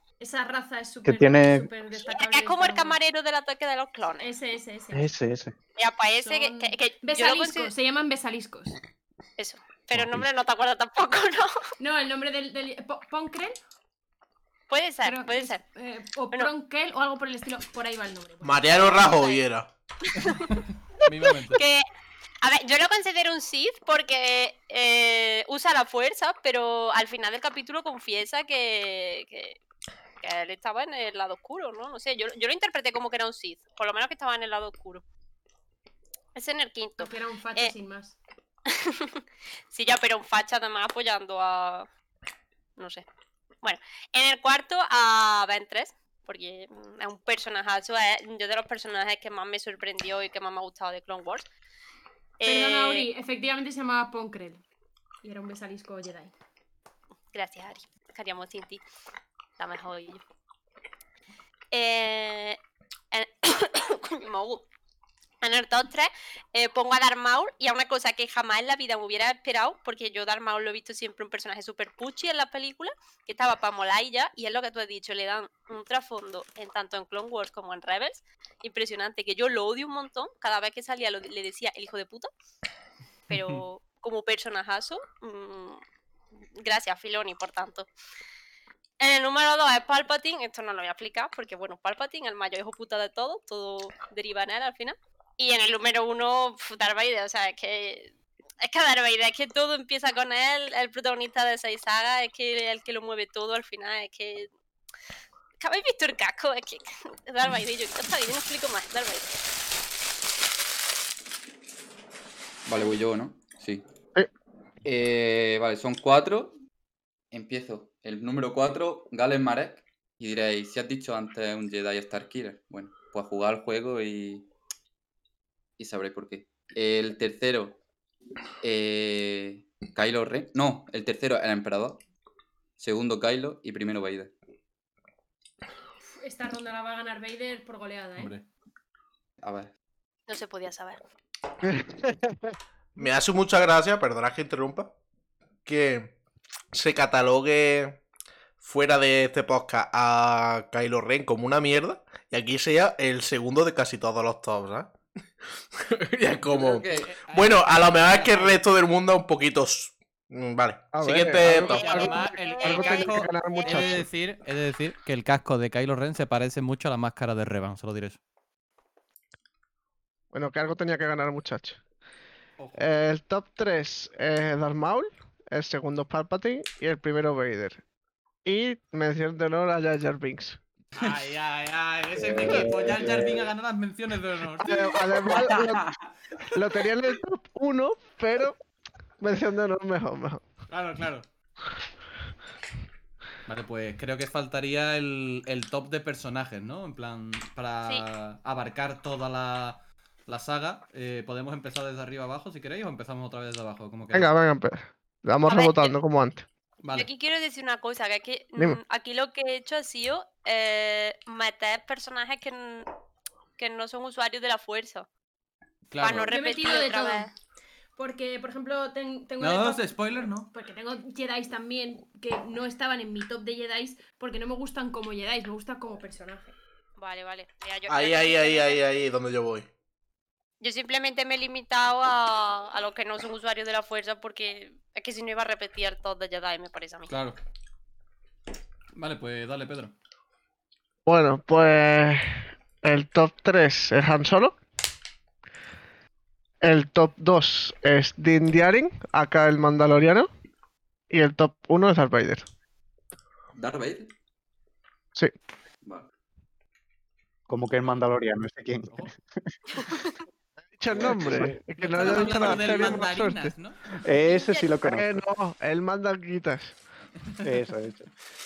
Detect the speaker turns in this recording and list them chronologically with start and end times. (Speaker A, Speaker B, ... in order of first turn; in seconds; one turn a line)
Speaker A: 0.2-3.0
Speaker B: 1.1-1.7
Speaker C: 1.9-4.3
Speaker A: 4.2-5.1
Speaker B: 4.9-5.5
Speaker C: 5.8-7.7
Speaker A: 6.2-8.8
Speaker C: 9.4-11.5
Speaker B: 9.9-10.3
Speaker A: 11.8-13.6
Speaker C: 14.7-15.6
Speaker A: 15.0-18.8
Speaker D: 18.4-19.7
Speaker C: 18.9-19.4
Speaker E: 20.5-21.6
Speaker C: 21.5-21.9
Speaker C: 22.4-29.6
Speaker C: 30.2-35.0
Speaker C: 36.4-37.7
Speaker A: 37.0-38.2
Speaker C: 38.7-39.2
Speaker C: 39.7-41.9
Speaker C: 42.8-43.0
Speaker C: 43.6-51.4
Speaker C: 52.4-53.1
Speaker A: 52.4-54.6
Speaker A: 55.2-56.3
Speaker C: 57.3-58.8
Speaker C: 59.6-60.2
Speaker C: 61.7-62.6
Speaker C: 63.1-64.6
Speaker C: 65.4-82.3
Speaker C: 83.3-85.8
Speaker E: 83.3-83.6
Speaker C: 86.6-87.9
Speaker C: 89.0-104.5
Speaker C: 105.6-109.3
Speaker F: 112.7-113.9
Speaker F: 114.8-116.5
Speaker F: 117.3-124.5
Speaker F: 125.8-127.8
Speaker F: 128.6-132.0
Speaker F: 132.8-134.3
Speaker A: 136.2-138.3
Speaker E: 138.2-138.4
Speaker F: 139.4-139.7
Speaker C: 140.3-141.0
Speaker D: 143.0-144.9
Speaker D: 145.7-146.2
Speaker D: 146.7-148.0
Speaker D: 148.6-154.9
Speaker D: 155.7-162.1
Speaker F: 156.4-157.2
Speaker E: 157.1-158.6
Speaker G: 160.9-164.1
Speaker E: 161.4-168.2
Speaker C: 161.5-163.9
Speaker G: 170.3-171.8
Speaker E: 172.6-172.9
Speaker G: 172.8-177.8
Speaker G: 178.4-180.6
Speaker E: 180.9-185.4
Speaker B: 182.2-183.5
Speaker G: 182.3-182.9
Speaker G: 184.6-185.9
Speaker F: 185.3-185.6
Speaker G: 186.6-188.6
Speaker G: 189.2-190.5
Speaker E: 190.7-191.3
Speaker E: 193.4-204.3
Speaker G: 204.1-206.5
Speaker C: 205.5-206.0
Speaker E: 206.8-207.1
Speaker C: 206.9-212.9
Speaker C: 213.6-215.1
Speaker E: 215.9-216.3
Speaker C: 216.0-217.3
Speaker A: 216.3-217.3
Speaker A: 218.0-226.6
Speaker E: 219.4-220.5
Speaker C: 227.0-228.8
Speaker D: 227.9-229.7
Speaker C: 230.6-237.1
Speaker E: 237.1-237.4
Speaker E: 238.9-239.9
Speaker G: 241.1-244.6
Speaker G: 246.6-250.3
Speaker G: 251.1-252.5
Speaker F: 253.5-254.1
Speaker F: 255.8-256.1
Speaker B: 257.5-259.5
Speaker G: 260.8-263.6
Speaker B: 261.0-261.5
Speaker E: 261.8-263.8
Speaker F: 262.5-262.8
Speaker B: 264.0-265.1
Speaker A: 264.2-264.7
Speaker G: 264.8-266.8
Speaker B: 267.4-268.1